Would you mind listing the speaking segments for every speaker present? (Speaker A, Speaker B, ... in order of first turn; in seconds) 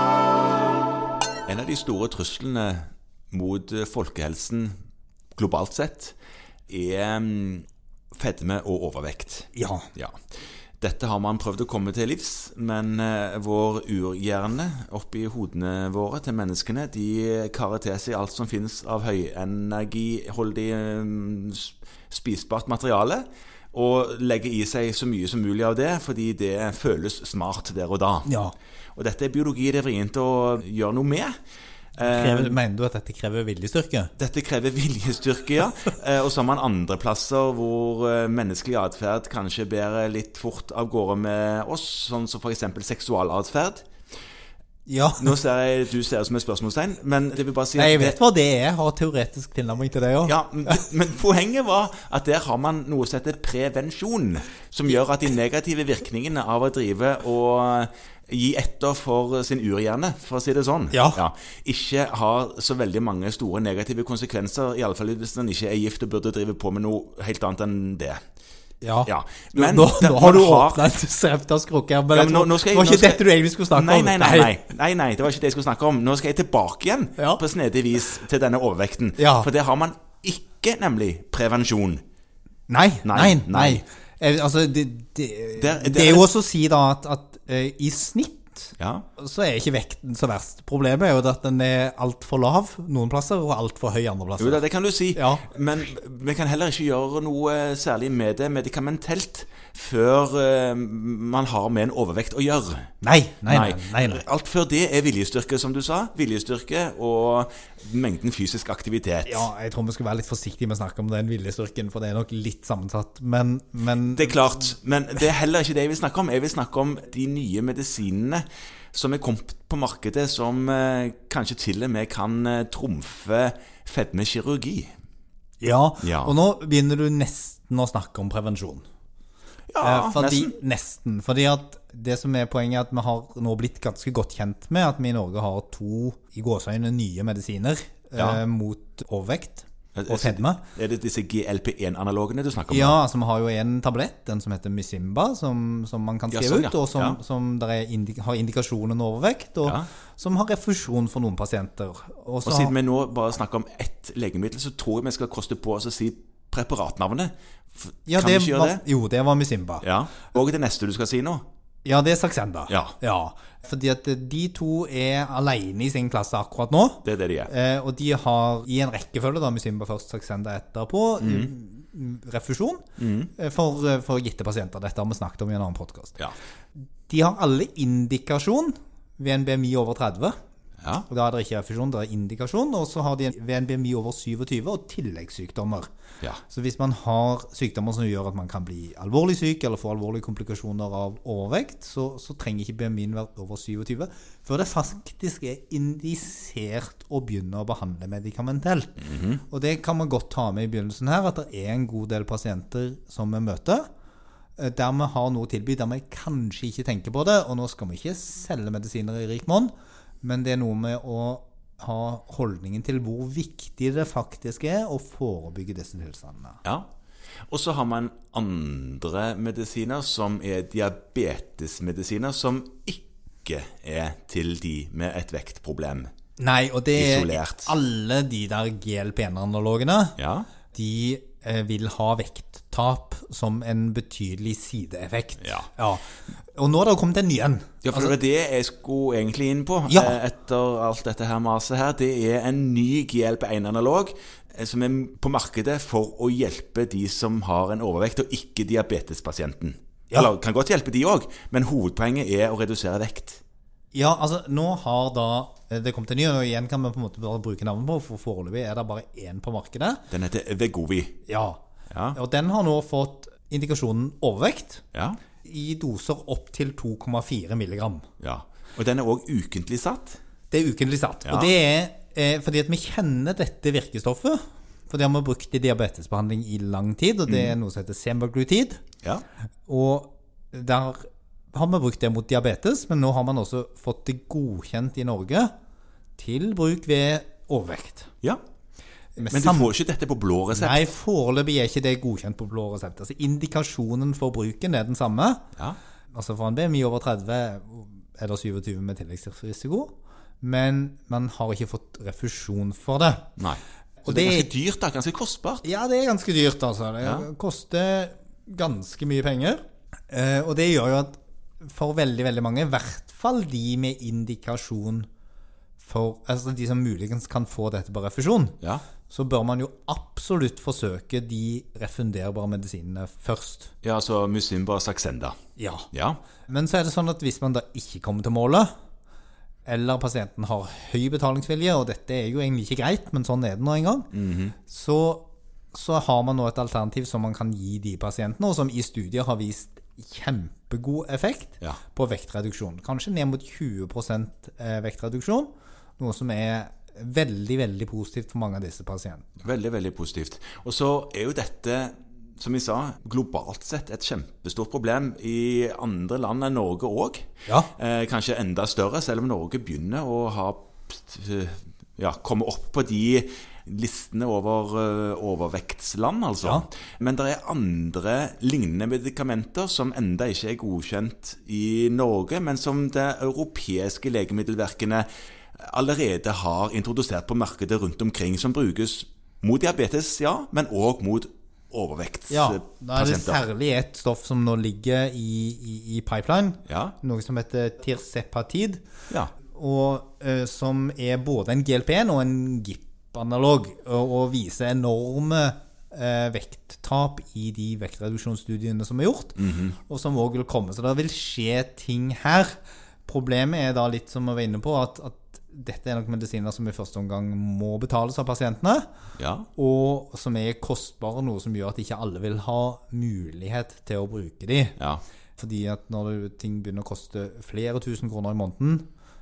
Speaker A: 1.4-4.7, 5.3-6.2, 6.7-10.2, 10.8-28.3, 28.9-31.3, 32.0-32.5, 34.2-43.9, 45.2-48.2, 50.2-68.2, 69.0-70.8, 72.1-82.0, 83.0-83.8, 85.6-86.2, 88.8-89.0, 94.4-102.9, 103.5-109.5, 114.0-124.9, 126.0-126.3, 129.7-130.5, 138.2-138.4, 139.9-143.0, 146.3-147.2, 152.4-158.8, 159.8-161.4, 162.7-162.9, 167.0-167.5, 171.2-171.5, 173.0-173.3, 180.8-181.1, 199.0-199.4, 217.5-226.1, 226.9-227.7, 230.2-230.5, 235.4-235.7, 237.8-253.4, 260.1-261.2, 261.9-262.2, 264.9-265.2, 268.2-270.2, 271.2-271.5, 277.3-277.5, 289.3-290.8, 303.4-305.6, 323.8-325.4, 325.9-326.2, 334.1-334.5, 349.4-357.2, 357.8-383.4, 386.7-386.9, 399.4-399.8, 409.2-409.5, 414.8-415.0
Speaker B: 9.5-9.9, 28.2-28.5, 32.0-34.1, 44.9-45.4, 47.8-50.8, 60.9-61.2, 68.8-74.6, 79.2-79.5, 82.7-94.6, 95.1-95.5, 103.0-104.2, 109.2-114.6, 125.6-128.8, 129.8-140.6, 142.7-152.7, 158.1-159.8, 161.8-172.8, 173.3-176.2, 177.1-180.4, 181.1-185.9, 186.5-203.9, 204.6-216.6, 226.4-230.2, 230.7-238.1, 239.9-240.2, 253.9-260.0, 261.3-261.6, 262.1-264.8, 265.4-268.1, 270.5-278.8, 279.7-285.5, 286.2-288.1, 289.2-289.7, 290.5-295.4, 296.1-303.3, 304.0-304.5, 305.6-315.1, 315.8-318.6, 319.1-323.7, 325.6-325.9, 326.5-328.7, 329.6-334.1, 334.7-349.3, 382.3-388.8, 389.5-408.9, 409.6-414.8, 415.4-418.9